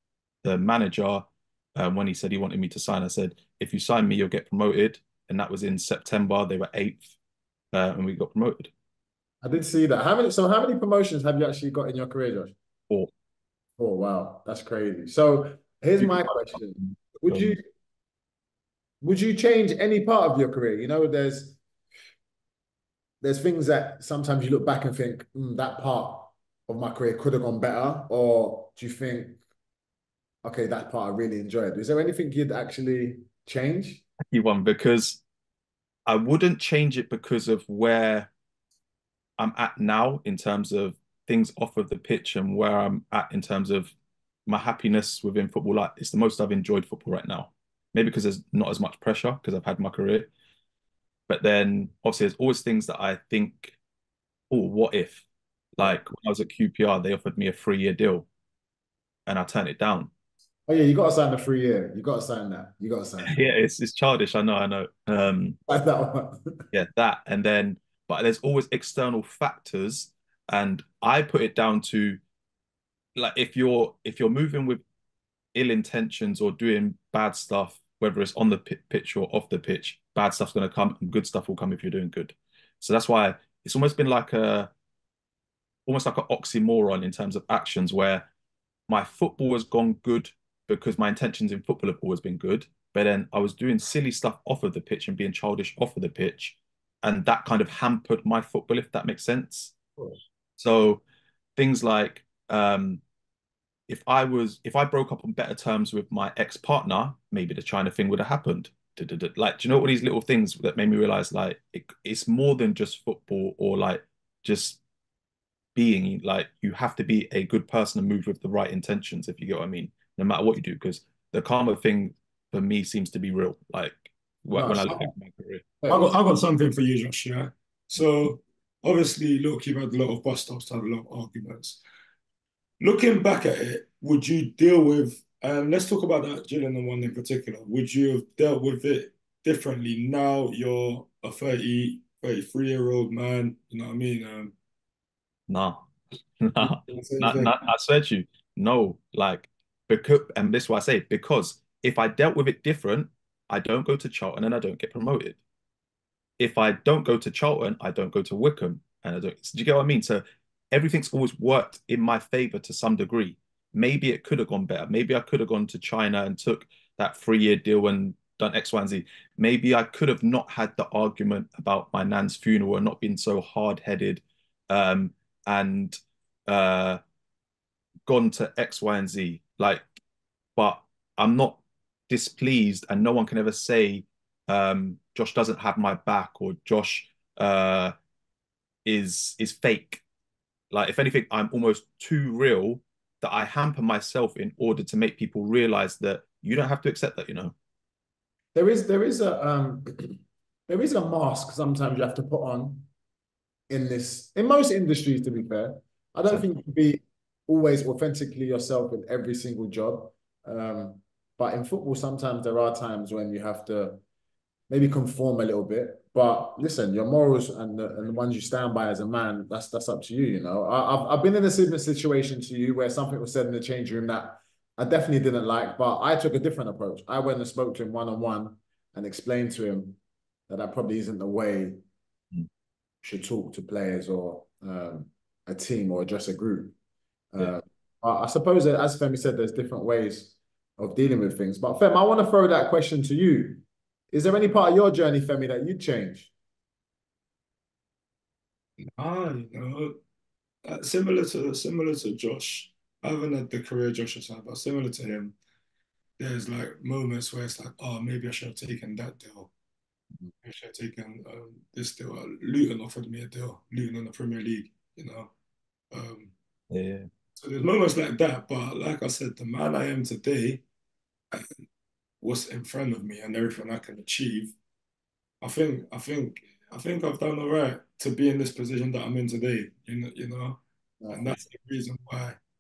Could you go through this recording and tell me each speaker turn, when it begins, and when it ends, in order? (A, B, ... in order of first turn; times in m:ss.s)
0:00.4-0:07.1 A
0:07.7-0:08.7 A
0:09.4-0:12.6 B
0:13.8-0:17.6 B
0:16.0-0:17.6 A
0:19.0-0:21.6 B
0:23.2-0:29.4 B
0:30.4-0:34.0 B
0:34.3-0:35.2 A
0:36.1-0:38.3 A
0:39.4-0:43.9 A
0:44.5-0:50.3 A
0:51.3-0:53.8 A
0:54.5-0:55.2 A
0:55.8-0:58.3 A
0:59.3-1:00.1 A
1:00.7-1:03.4 B
1:03.2-1:05.6 A
1:05.7-1:06.6 B
1:06.7-1:12.2 A
1:13.2-1:14.8 A
1:15.6-1:24.7 A
1:25.9-1:28.3 A
1:28.9-1:39.7 A
1:40.0-1:40.2 B
1:40.6-1:41.0 A
1:41.6-1:43.0 A
1:43.9-1:54.8 A
1:55.8-2:05.6 A
2:04.5-2:05.1 B
2:05.8-2:06.1 B
2:05.9-2:11.8 C
2:12.8-2:24.5 C
2:25.5-2:25.9 A
2:26.4-2:35.4 A
2:26.6-2:27.6 C
2:36.4-2:56.0 A
2:56.5-2:57.0 A
2:58.1-2:59.8 A
3:00.6-3:08.0 A
3:08.9-3:10.0 A
3:10.7-3:17.5 A
3:18.5-3:22.9 B
3:23.7-3:34.0 B
3:34.7-3:51.8 B
3:53.0-3:56.8 B
3:57.3-4:06.3 B
4:08.8-4:10.0 C
4:10.6-4:15.4 C
4:16.2-4:19.5 C
4:20.4-4:25.3 C
4:25.9-4:26.3 C
4:26.7-4:27.1 A
4:27.4-4:30.6 C
4:31.3-4:31.6 C
4:32.2-4:34.5 C
4:35.4-4:42.4 C
4:41.0-4:41.4 B